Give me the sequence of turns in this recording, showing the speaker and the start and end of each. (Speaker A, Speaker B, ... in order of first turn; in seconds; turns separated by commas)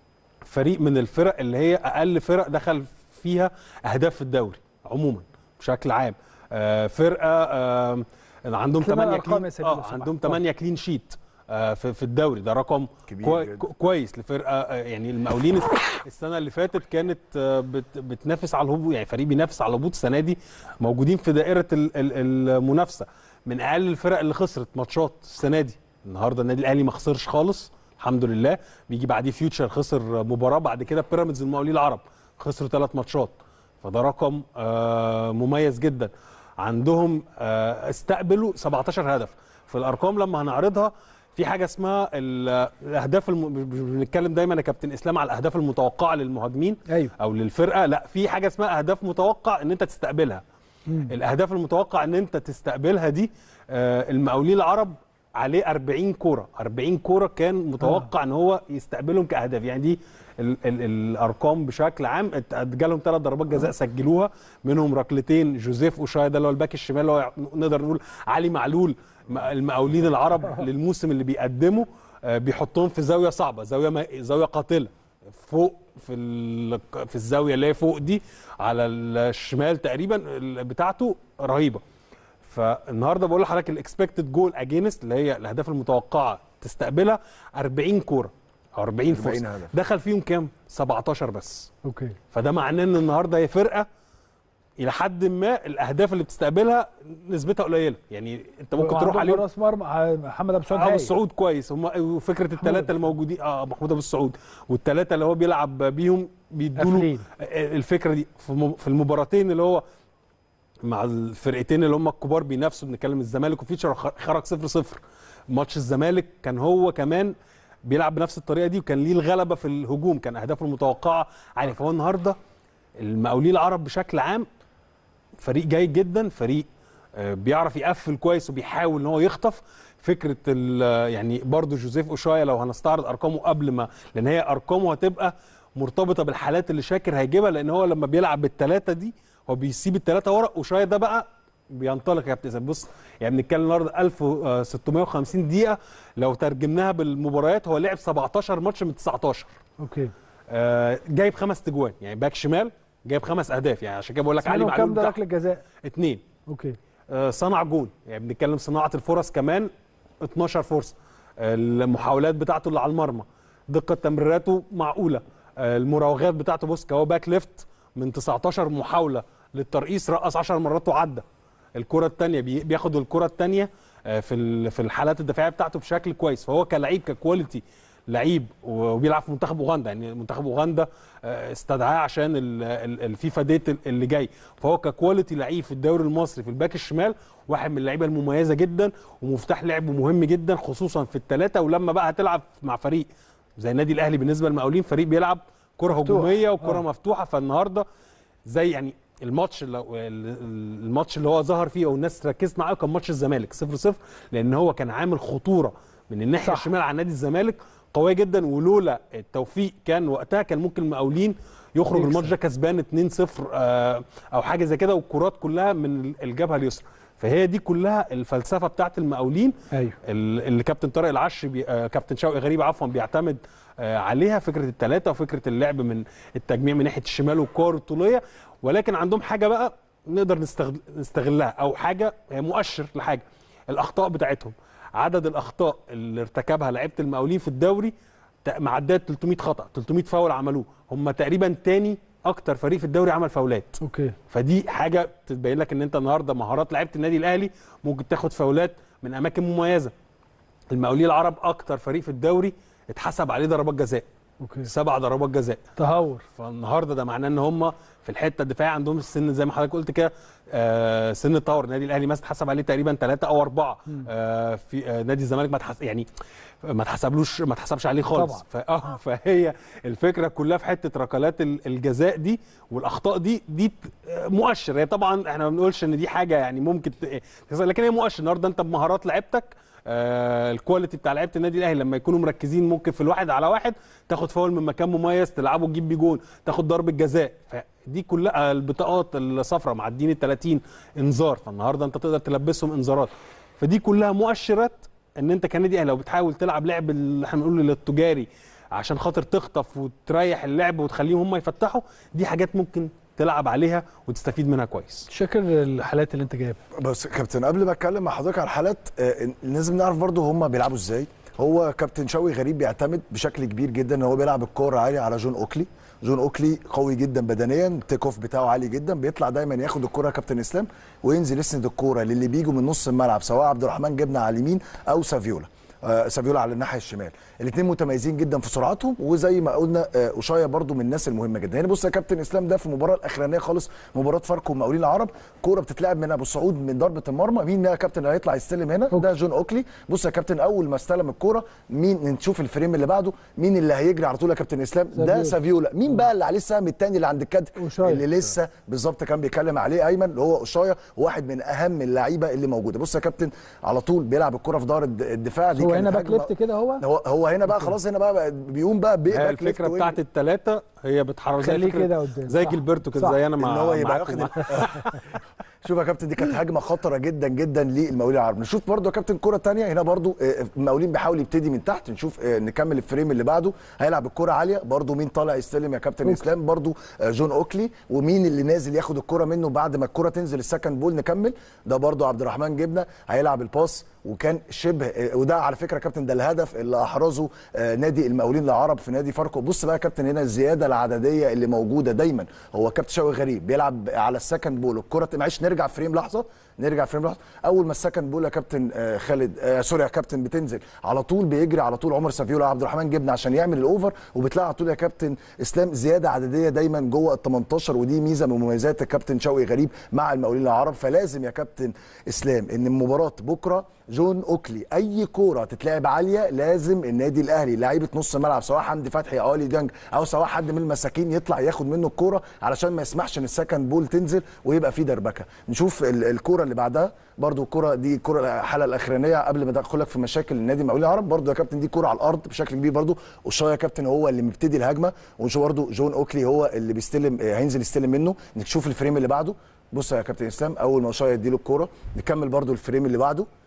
Speaker A: 0.4-50.4, Speaker B: 8.8-10.4, Speaker C: 13.1-13.7, Speaker B: 46.9-47.1, Speaker A: 51.1-81.8, Speaker B: 57.8-58.1, Speaker A: 82.4-91.7, Speaker C: 89.1-89.7, Speaker B: 91.8-92.2, Speaker A: 92.3-93.9, Speaker A: 94.8-99.4, Speaker B: 98.8-101.1, Speaker A: 100.7-109.8, Speaker B: 102.6-102.9, Speaker B: 106.8-107.2, Speaker A: 110.8-115.0, Speaker A: 115.5-117.3, Speaker A: 117.8-122.3, Speaker A: 123.0-124.5, Speaker A: 125.4-149.5, Speaker B: 149.8-150.1, Speaker A: 150.5-155.2, Speaker B: 154.4-155.6, Speaker A: 155.8-156.2, Speaker B: 156.5-156.8, Speaker A: 157.1-159.7, Speaker A: 160.2-171.2, Speaker A: 171.8-193.1, Speaker A: 193.6-197.8, Speaker B: 195.9-196.8, Speaker A: 198.4-237.9, Speaker B: 206.4-206.7, Speaker B: 211.9-212.3, Speaker A: 238.4-249.9, Speaker B: 243.8-244.1, Speaker A: 250.7-254.0, Speaker B: 254.4-254.7, Speaker A: 254.7-255.6, Speaker B: 255.8-256.2, Speaker A: 256.4-266.1, Speaker A: 266.6-305.1, Speaker B: 268.1-268.4, Speaker B: 305.1-306.6, Speaker C: 306.7-360.0, Speaker B: 344.9-345.3, Speaker B: 347.6-348.0, Speaker B: 355.6-356.8, Speaker A: 359.1-365.0, Speaker B: 361.4-363.2, Speaker C: 363.4-364.8, Speaker C: 365.6-443.3